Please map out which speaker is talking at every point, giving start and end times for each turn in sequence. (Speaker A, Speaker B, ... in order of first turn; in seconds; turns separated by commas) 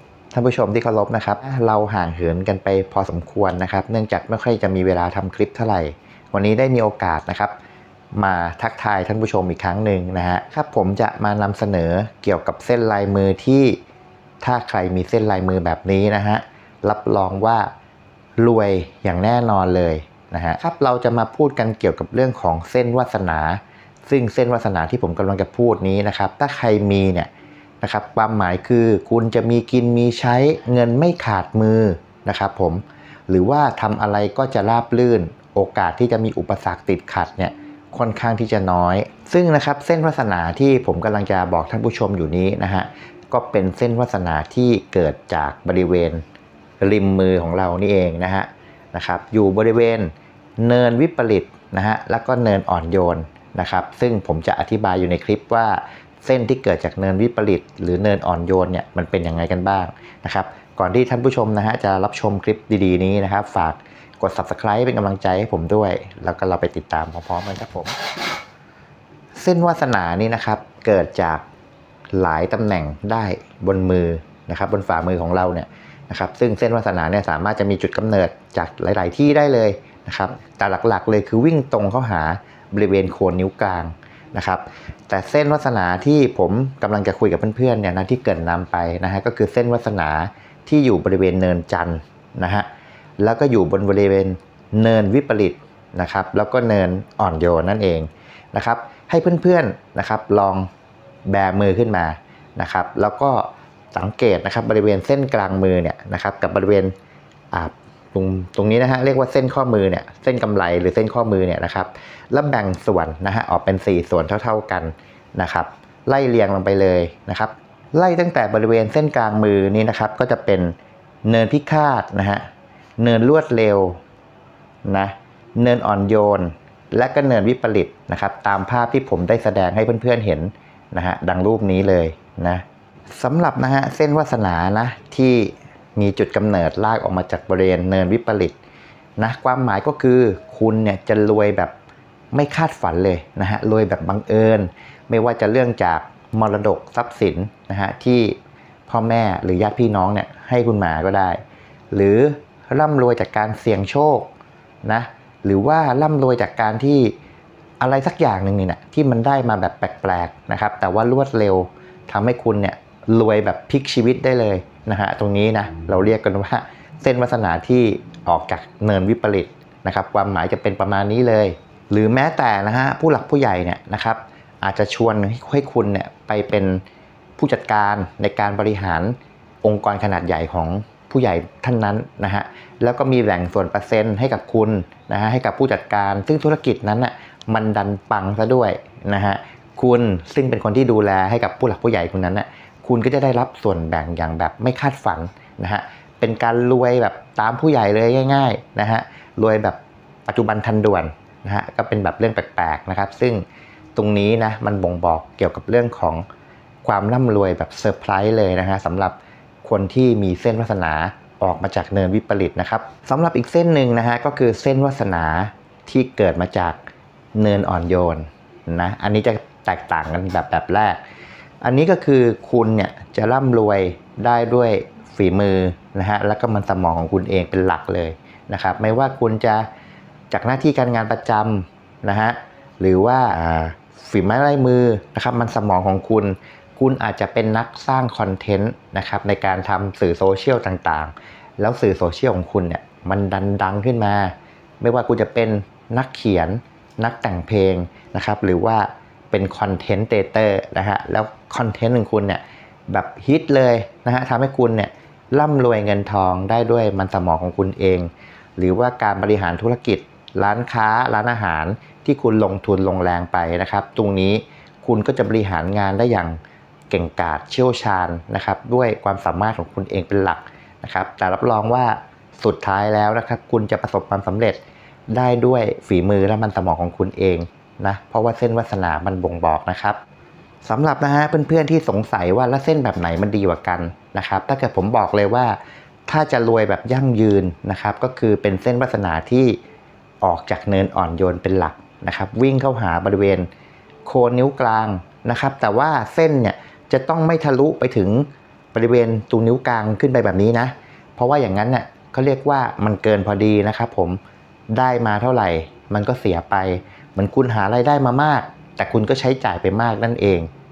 Speaker A: 0.3-7.5, Speaker A: 8.1-13.8, Speaker A: 14.4-17.7, Speaker A: 18.4-27.3, Speaker A: 27.8-46.2, Speaker A: 46.8-68.0, Speaker A: 69.4-71.4, Speaker A: 72.1-92.7, Speaker A: 93.2-100.7, Speaker A: 101.3-106.9, Speaker A: 107.5-122.5, Speaker A: 123.0-124.0, Speaker A: 124.8-138.6, Speaker A: 139.2-141.7, Speaker A: 142.3-148.4, Speaker A: 148.9-151.4, Speaker A: 151.9-154.3, Speaker A: 154.8-157.2, Speaker A: 157.8-176.8, Speaker A: 177.4-203.4, Speaker A: 203.9-206.2, Speaker A: 206.8-216.8, Speaker A: 217.3-221.0, Speaker A: 221.6-229.7, Speaker A: 230.3-266.4, Speaker A: 266.9-274.6, Speaker A: 275.1-280.0, Speaker A: 280.6-285.6, Speaker A: 286.1-289.6, Speaker A: 290.2-293.5, Speaker A: 294.1-304.2, Speaker A: 304.7-310.5